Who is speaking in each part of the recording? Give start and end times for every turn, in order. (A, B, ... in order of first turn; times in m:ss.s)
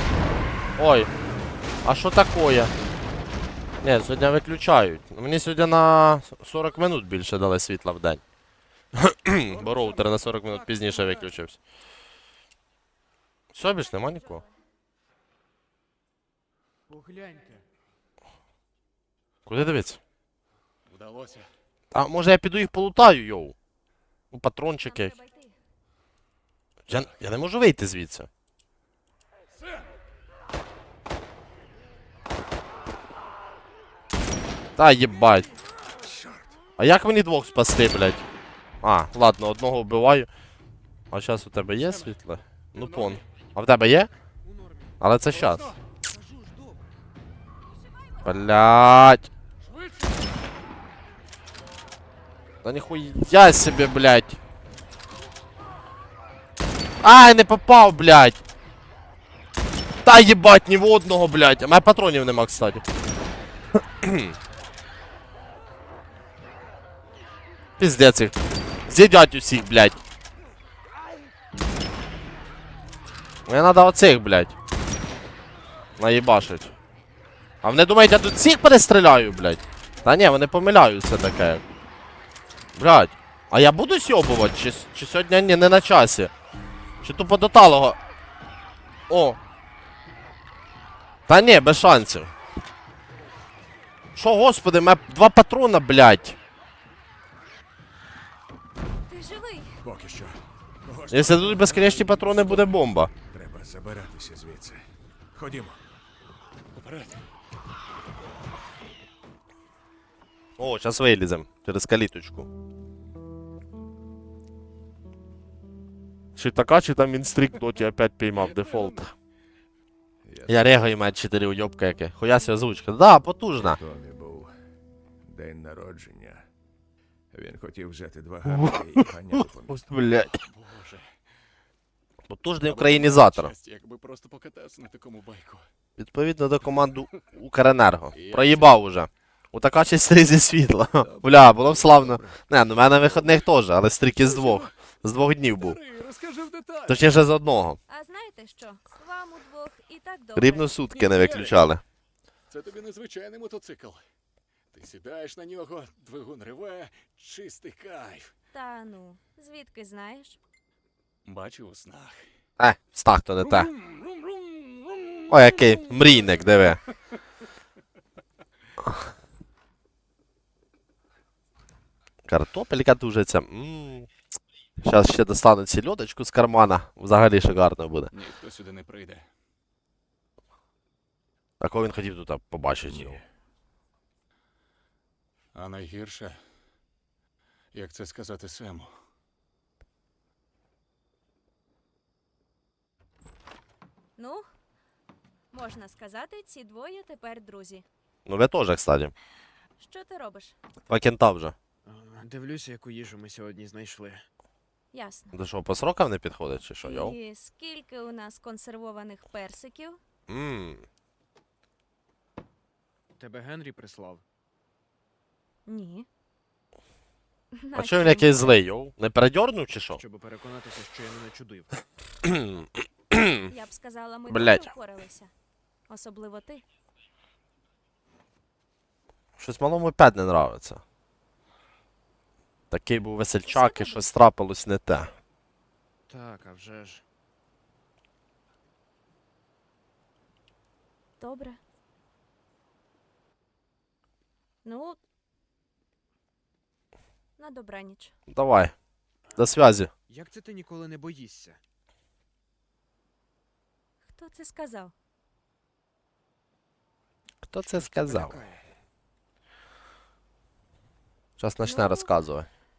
0:00.8-0:01.1 A
0:01.8-0:02.7 A
0:03.8-0:08.2 A
0:08.9-0:11.6 A
0:13.5-0:14.4 A
0:16.9-0:17.6 B
0:19.4-0:20.0 A
0:20.9-0:21.5 C
0:21.9-0:23.5 A
0:24.3-0:25.2 A
0:24.8-0:25.6 D
0:26.9-0:28.3 A
0:34.8-0:35.5 A
0:36.8-0:38.2 A
0:38.8-0:40.3 A
0:41.1-0:44.1 A
0:44.4-0:44.9 B
0:45.0-0:45.7 A
0:46.1-0:46.8 B
0:48.2-0:49.3 A
0:52.6-0:54.4 A
0:57.0-0:58.4 A
1:00.0-1:02.8 A
1:04.0-1:04.3 A
1:07.8-1:08.3 A
1:08.9-1:10.0 A
1:13.5-1:14.5 A
1:16.0-1:16.7 A
1:17.6-1:21.6 A
1:22.8-1:26.3 A
1:27.0-1:28.0 A
1:29.1-1:29.4 A
1:31.3-1:32.3 A
1:34.2-1:36.4 A
1:39.1-1:39.8 D
1:39.8-1:45.8 E
1:41.1-1:43.1 A
1:46.7-1:47.2 C
1:50.6-1:52.5 A
1:56.4-1:59.1 A
2:00.2-2:00.8 E
2:00.5-2:03.8 A
2:03.6-2:04.5 E
2:05.2-2:06.4 E
2:07.3-2:09.9 E
2:08.5-2:10.4 A
2:10.4-2:11.1 C
2:12.3-2:13.5 A
2:12.6-2:15.7 C
2:16.0-2:25.8 A
2:18.1-2:18.8 C
2:21.2-2:21.8 C
2:24.2-2:24.7 C
2:25.6-2:27.0 C
2:26.9-2:27.8 A
2:27.9-2:30.9 D
2:30.4-2:31.8 A
2:30.9-2:31.7 C
2:32.5-2:34.0 C
2:34.7-2:38.3 C
2:38.5-2:40.4 D
2:41.2-2:42.3 C
2:42.6-2:43.7 A
2:43.4-2:45.4 C
2:45.3-2:46.8 A
2:52.3-2:54.1 A
2:54.8-2:58.1 A
2:58.1-2:59.3 C
3:01.6-3:03.2 A
3:02.9-3:03.2 E
3:05.5-3:06.4 C
3:07.7-3:08.9 C
3:14.2-3:14.5 D
3:15.5-3:17.8 D
3:18.2-3:19.1 A
3:19.8-3:20.5 D
3:20.9-3:21.5 A
3:21.8-3:24.2 B
3:24.9-3:25.4 D
3:25.3-3:27.2 A
3:26.8-3:30.0 D
3:30.3-3:30.8 A
3:33.2-3:34.2 B
3:35.7-3:36.1 D
3:37.5-3:38.6 D
3:37.7-3:40.0 A
3:40.0-3:41.8 B
3:42.2-3:43.5 A
3:43.5-3:45.3 D
3:44.3-3:44.7 A
3:45.9-3:46.6 D
3:49.4-3:50.8 A
3:52.7-3:55.1 A
3:53.4-3:54.1 D
3:56.1-3:57.0 B
4:01.2-4:01.6 D
4:04.6-4:05.0 D
4:07.4-4:08.1 D
4:08.3-4:08.7 A
4:09.4-4:09.9 A
4:10.1-4:11.6 B
4:14.0-4:14.9 D
4:17.4-4:18.4 A
4:17.6-4:18.6 B
4:21.4-4:22.5 A
4:21.6-4:22.2 D